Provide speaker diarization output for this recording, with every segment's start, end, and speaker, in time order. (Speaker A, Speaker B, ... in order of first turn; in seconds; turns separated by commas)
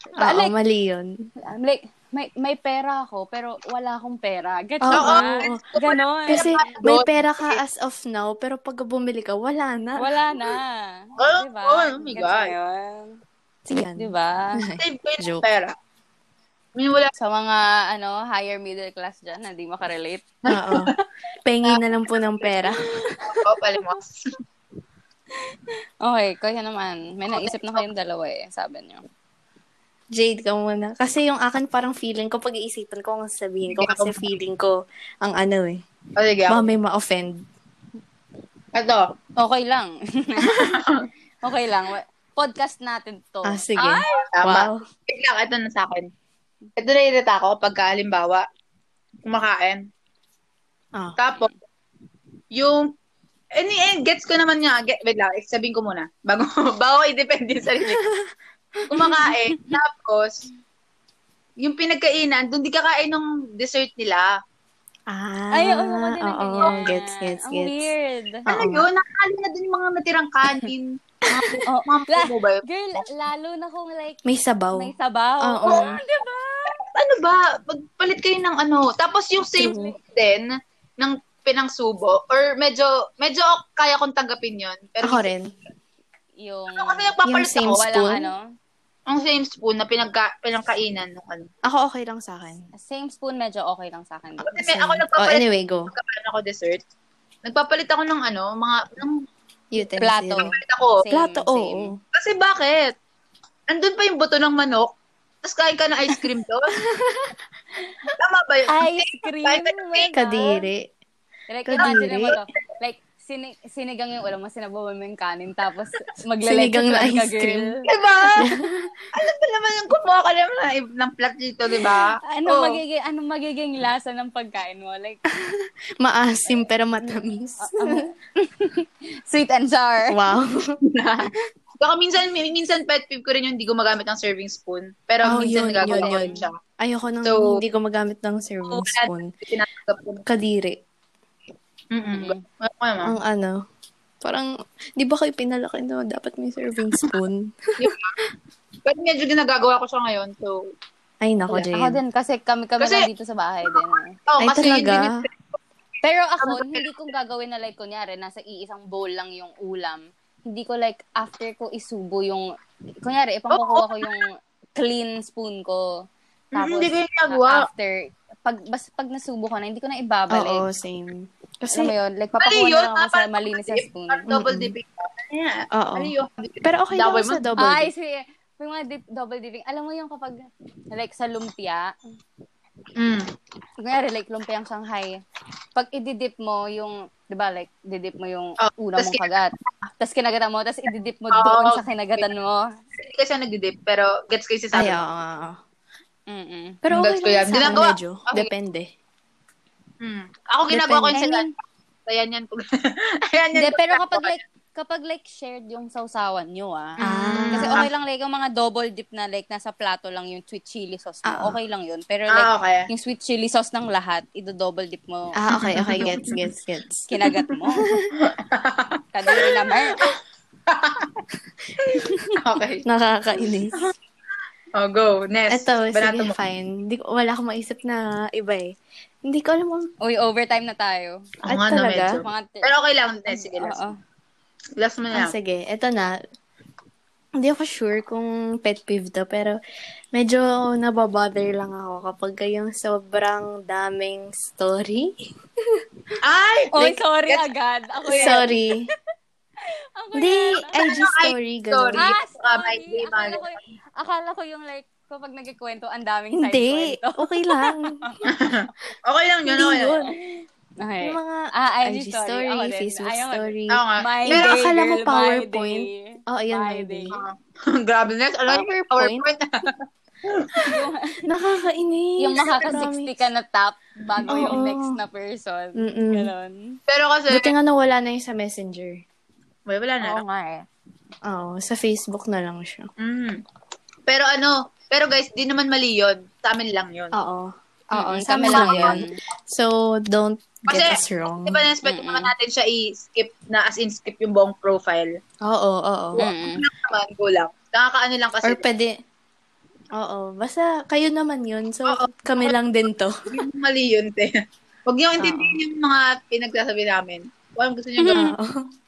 Speaker A: 0.1-0.5, Speaker B: 0.2-1.1, Speaker A: 1.4-6.7, Speaker B: 4.8-5.6, Speaker C: 4.9-7.6, Speaker B: 6.3-10.1, Speaker A: 10.0-13.2, Speaker C: 11.2-12.5, Speaker B: 13.7-15.4, Speaker A: 13.9-14.7, Speaker C: 14.8-15.7, Speaker C: 16.8-17.1, Speaker A: 17.2-20.2, Speaker C: 20.5-21.0, Speaker B: 20.5-20.9, Speaker B: 21.4-22.8, Speaker A: 22.9-23.4, Speaker C: 23.2-24.4, Speaker A: 25.5-29.0, Speaker C: 27.3-27.8, Speaker B: 30.1-35.8, Speaker C: 33.7-34.2, Speaker C: 36.1-36.7, Speaker B: 36.5-37.4, Speaker C: 38.7-39.0, Speaker A: 39.4-40.7, Speaker C: 40.5-41.1, Speaker A: 41.4-44.3, Speaker B: 43.4-44.8, Speaker C: 44.3-46.1, Speaker C: 46.8-48.4, Speaker C: 49.2-49.8, Speaker C: 51.2-51.5, Speaker C: 52.5-52.9, Speaker C: 53.5-58.0, Speaker B: 57.8-58.3, Speaker C: 58.9-60.4, Speaker C: 61.6-64.3, Speaker B: 65.1-67.9, Speaker A: 65.5-68.5, Speaker B: 68.5-68.9, Speaker C: 68.5-72.6, Speaker A: 71.6-74.2, Speaker B: 74.2-76.0, Speaker A: 74.7-76.8, Speaker C: 76.8-80.5, Speaker B: 79.5-80.0, Speaker C: 81.0-85.3, Speaker B: 85.0-85.5, Speaker A: 86.4-87.1, Speaker C: 86.8-87.9, Speaker B: 87.2-88.3, Speaker A: 87.6-88.4, Speaker C: 89.1-91.5, Speaker B: 91.6-92.7, Speaker A: 92.7-94.8, Speaker C: 94.4-96.8, Speaker B: 94.7-95.9, Speaker C: 97.4-99.2, Speaker B: 99.7-100.5, Speaker A: 100.0-101.9, Speaker C: 100.5-101.0, Speaker B: 101.1-102.0, Speaker C: 102.1-102.9, Speaker C: 103.7-104.9, Speaker C: 105.4-106.8, Speaker B: 106.8-107.3, Speaker C: 108.2-110.1, Speaker A: 108.7-110.6, Speaker B: 110.1-110.9, Speaker A: 111.5-118.4, Speaker B: 111.7-112.3, Speaker C: 111.8-112.4, Speaker B: 116.4-117.7, Speaker C: 117.9-118.5, Speaker B: 118.4-118.9, Speaker C: 119.1-122.8, Speaker A: 121.8-125.2, Speaker B: 125.3-128.1, Speaker A: 127.0-130.2, Speaker B: 130.1-130.8, Speaker C: 130.8-136.5, Speaker B: 135.2-139.3, Speaker A: 135.8-136.4, Speaker C: 137.2-137.6, Speaker C: 138.7-140.2, Speaker B: 140.2-140.8, Speaker C: 141.9-143.2, Speaker A: 142.0-142.4, Speaker B: 143.0-143.6, Speaker B: 144.2-147.9, Speaker C: 147.8-148.1, Speaker C: 148.8-150.6, Speaker B: 151.2-152.0, Speaker A: 151.5-154.2, Speaker C: 152.8-153.1, Speaker C: 154.3-155.3, Speaker B: 154.4-155.1, Speaker A: 156.0-162.5, Speaker C: 156.4-156.9, Speaker A: 163.0-170.6, Speaker C: 163.5-164.1, Speaker C: 166.6-167.7, Speaker B: 170.3-171.9, Speaker A: 171.7-174.3, Speaker C: 172.4-177.5, Speaker B: 174.3-174.7, Speaker B: 175.7-177.9, Speaker A: 177.6-181.9, Speaker C: 183.0-183.3, Speaker A: 183.8-185.2, Speaker A: 185.7-192.7, Speaker C: 188.6-189.6, Speaker C: 191.3-192.3, Speaker C: 193.0-195.0, Speaker B: 194.7-195.6, Speaker A: 196.3-196.8, Speaker B: 196.8-198.9, Speaker C: 196.9-198.5, Speaker C: 200.0-201.5, Speaker B: 200.7-201.2, Speaker A: 201.1-201.5, Speaker C: 202.1-204.4, Speaker A: 203.5-207.0, Speaker C: 207.0-207.8, Speaker B: 207.0-207.9, Speaker A: 207.5-216.1, Speaker B: 211.2-211.6, Speaker C: 212.3-212.9, Speaker B: 215.3-217.1, Speaker C: 215.5-216.5, Speaker A: 217.1-217.9, Speaker B: 217.8-218.1, Speaker C: 218.2-219.5, Speaker A: 219.1-220.1, Speaker C: 220.7-221.2, Speaker C: 221.8-222.8, Speaker A: 222.1-222.3, Speaker B: 222.8-223.8, Speaker C: 224.8-226.3, Speaker B: 225.5-228.7, Speaker B: 229.3-229.9, Speaker A: 230.0-231.2, Speaker C: 231.4-233.9, Speaker B: 231.5-232.2, Speaker A: 232.2-232.7, Speaker A: 233.3-233.9, Speaker C: 234.8-235.3, Speaker B: 235.1-236.2, Speaker B: 237.4-239.6, Speaker B: 240.1-245.8, Speaker C: 246.2-247.4, Speaker A: 246.7-248.6, Speaker C: 248.1-248.4, Speaker B: 248.1-248.9, Speaker A: 250.0-251.0, Speaker B: 250.1-252.1, Speaker C: 250.8-253.4, Speaker A: 252.0-258.3, Speaker B: 256.3-257.9, Speaker C: 258.3-260.1, Speaker B: 259.5-260.1, Speaker A: 260.8-267.2, Speaker B: 261.0-267.1, Speaker C: 263.7-264.5, Speaker C: 267.1-270.7, Speaker B: 268.5-269.2, Speaker A: 270.7-271.3, Speaker B: 271.2-273.1, Speaker A: 272.2-276.8, Speaker C: 274.2-274.6, Speaker B: 274.3-274.9, Speaker B: 275.8-276.3, Speaker C: 276.9-277.5, Speaker B: 277.3-279.0, Speaker C: 279.7-280.2, Speaker A: 280.0-280.7, Speaker B: 281.2-282.9, Speaker C: 283.0-283.4, Speaker C: 284.1-287.1, Speaker B: 287.1-291.6, Speaker A: 287.9-289.2, Speaker C: 288.4-289.0, Speaker C: 290.7-295.2, Speaker A: 291.8-292.3, Speaker B: 295.4-296.2, Speaker C: 296.1-298.6, Speaker A: 296.2-296.6, Speaker B: 298.4-298.9, Speaker B: 300.0-303.1, Speaker C: 301.9-302.6, Speaker C: 303.3-304.3, Speaker C: 304.9-308.3, Speaker B: 305.2-305.6, Speaker A: 308.0-308.3, Speaker B: 308.1-308.7